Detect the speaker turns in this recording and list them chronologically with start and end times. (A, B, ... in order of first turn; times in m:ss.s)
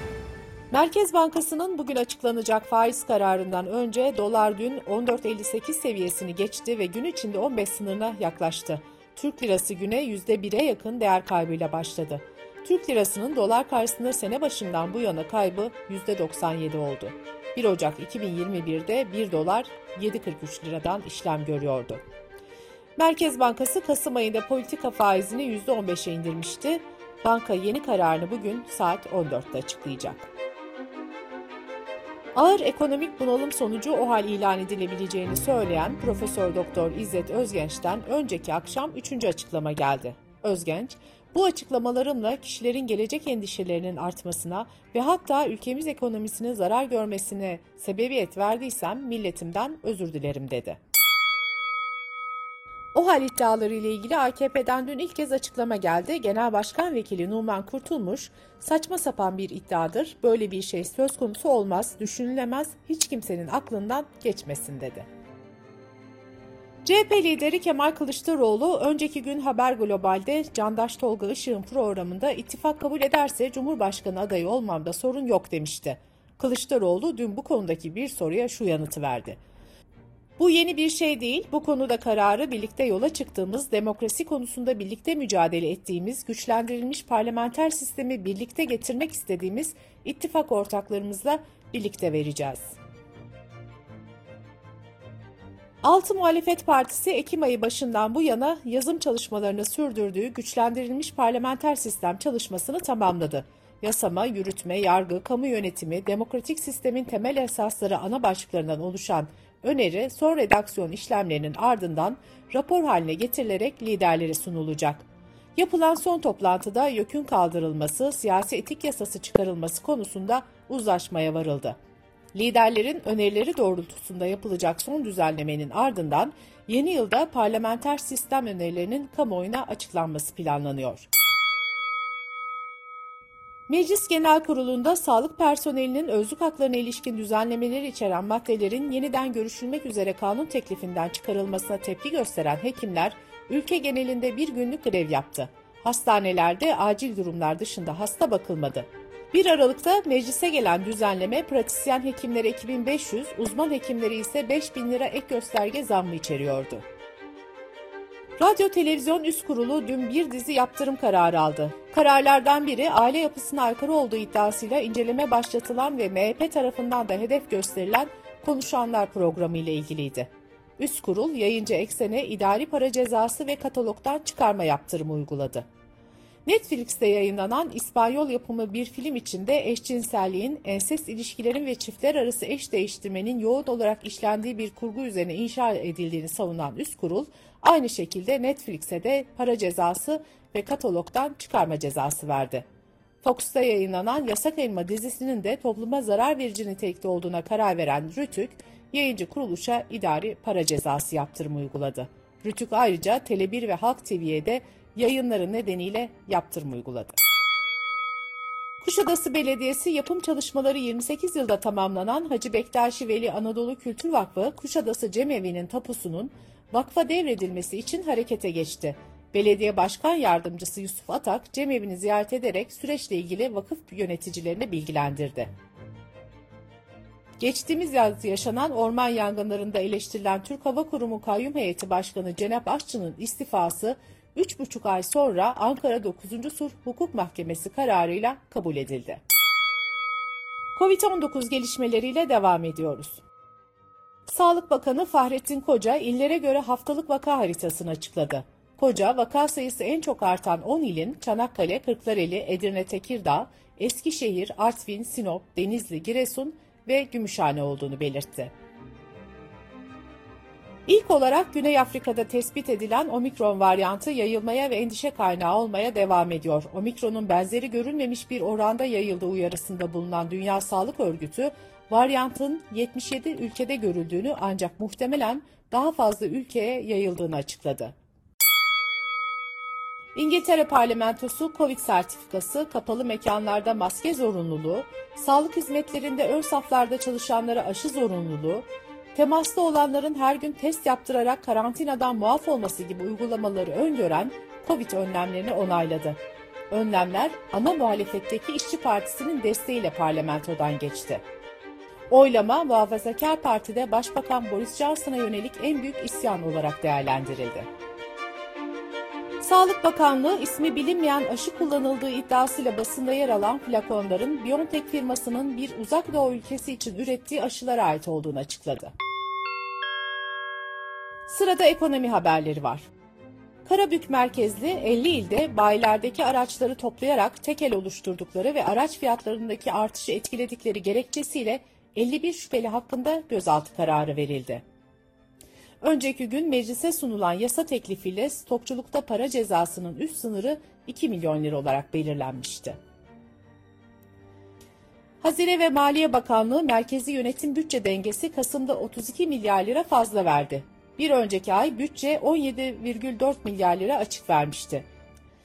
0:00.7-0:22.0 A
0:23.0-0:30.3 A
0:32.4-0:50.8 A
0:52.9-1:05.1 A
1:06.8-1:19.4 A
1:20.4-1:32.8 A
1:35.8-2:01.8 A
2:02.3-2:11.1 A
2:13.7-2:36.8 A
2:38.4-2:55.7 A
2:56.5-3:12.6 A
3:13.2-3:27.2 A
3:28.8-3:45.5 A
3:47.4-3:59.2 A
4:00.8-4:03.2 A
4:04.3-4:18.5 A
4:20.9-4:37.9 A
4:40.2-4:56.2 A
4:56.7-5:01.2 A
5:02.1-5:07.7 A
5:09.4-5:18.9 A
5:21.3-5:22.9 A
5:23.6-5:34.6 A
5:35.8-5:42.8 A
5:45.2-5:54.9 A